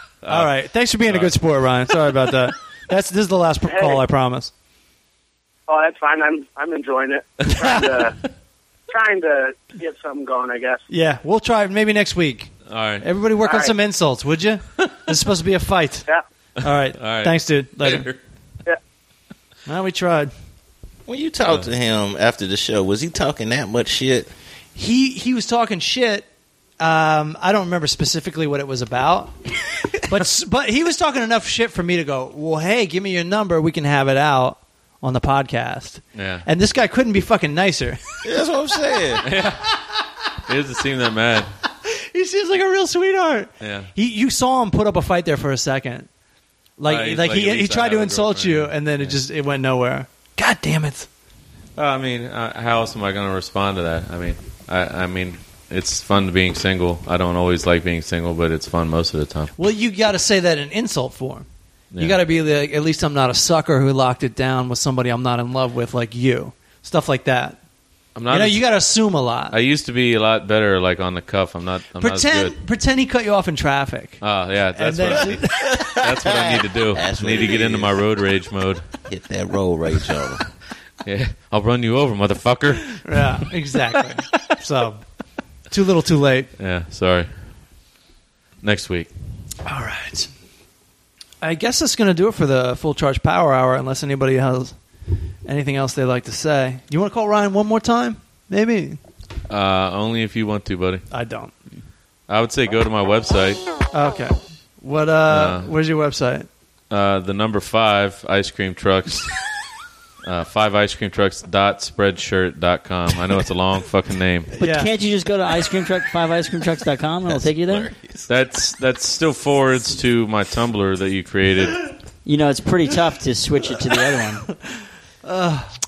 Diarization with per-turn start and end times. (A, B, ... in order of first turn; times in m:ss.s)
0:00.2-0:01.4 A
0:00.3-0:04.5 B
0:03.7-0:04.0 C
0:05.7-0:08.2 C
0:08.9-0:10.8 C
0:10.9-0:16.1 B
0:12.7-0:13.0 A
0:13.4-0:13.7 C
0:16.6-0:18.1 B
0:17.0-0:18.2 A
0:19.7-0:20.3 B
0:21.1-0:24.3 D
0:24.8-0:26.3 B
0:26.8-0:38.0 B
0:36.2-0:36.5 A
0:38.2-0:39.3 D
0:39.2-0:39.8 A
0:40.5-0:41.5 A
0:41.9-0:46.1 B
0:43.6-0:43.9 A
0:46.8-0:51.1 B
0:46.9-0:49.2 A
0:51.8-0:59.5 A
0:59.6-1:01.5 B
1:01.9-1:02.2 A
1:02.0-1:07.6 B
1:08.2-1:08.7 A
1:08.3-1:09.6 B
1:09.5-1:12.6 A
1:12.0-1:14.2 B
1:14.2-1:18.9 A
1:14.7-1:15.7 B
1:15.6-1:18.1 D
1:19.0-1:20.5 D
1:21.0-1:23.5 A
1:23.0-1:25.0 B
1:25.7-1:26.5 B
1:26.6-1:27.3 A
1:28.6-1:29.1 A
1:29.6-1:30.3 B
1:31.4-1:34.8 B
1:35.5-1:39.0 B
1:39.5-1:41.1 A
1:41.1-1:41.5 B
1:42.3-1:43.6 A
1:43.9-1:46.5 B
1:45.3-1:45.7 A
1:46.9-1:49.4 A
1:50.2-1:54.5 A
1:54.6-1:57.9 E
1:54.6-1:54.9 B
1:57.3-1:58.3 D
1:58.3-2:01.9 A
2:02.2-2:04.5 E
2:05.2-2:05.7 B